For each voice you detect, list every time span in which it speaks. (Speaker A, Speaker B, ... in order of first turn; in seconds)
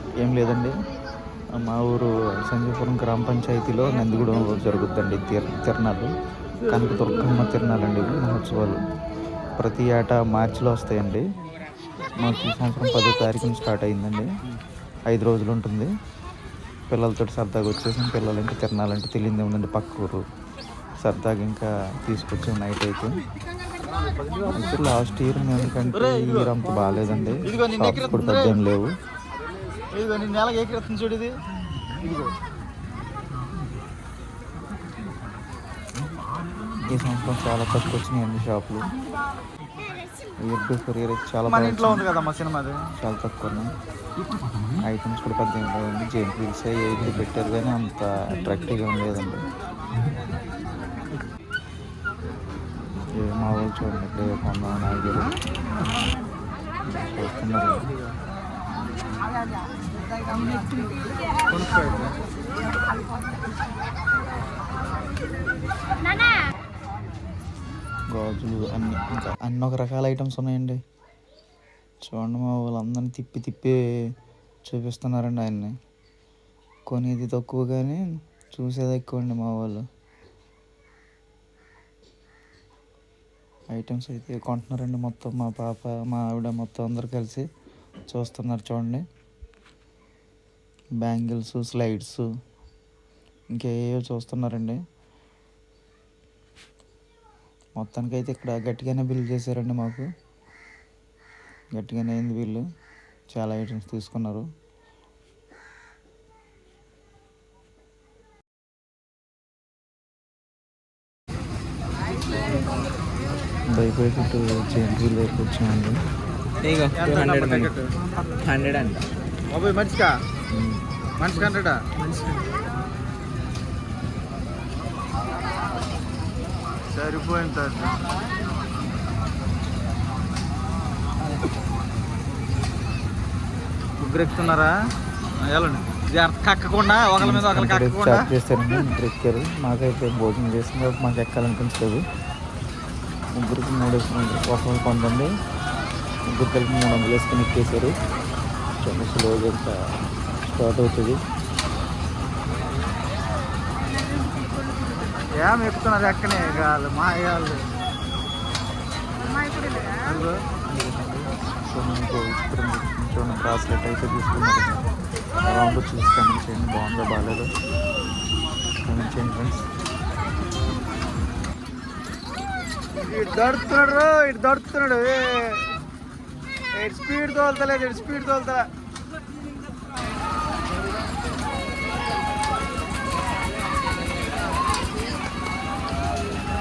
Speaker A: 0.2-0.8, 1.6-6.1, 6.7-8.8, 9.6-11.2, 12.2-14.3, 15.1-15.9, 16.9-20.2, 21.0-23.2, 24.5-28.9, 36.9-38.9, 40.4-42.0, 43.0-43.7, 44.9-49.4, 53.2-55.3, 56.9-57.9, 68.1-70.8, 72.0-73.8, 74.7-75.7, 76.9-79.8, 83.7-87.5, 88.1-89.0, 91.0-92.2, 93.5-94.8, 97.8-100.1, 101.8-102.6, 103.3-104.5, 113.7-116.0, 120.5-120.8, 137.2-142.0, 143.4-145.3, 146.3-147.9, 148.8-149.8, 150.4-151.2, 160.7-164.9, 165.4-167.5, 168.9-169.7
Speaker B: 25.9-26.6, 27.4-28.6, 29.9-31.3, 32.0-32.3, 41.5-42.9, 61.5-62.1, 117.0-118.0, 119.5-120.2, 121.2-121.8, 126.9-128.0, 134.0-134.7, 135.4-138.3, 155.3-157.7, 160.0-160.4, 173.0-175.7, 176.8-178.7
Speaker C: 116.6-119.1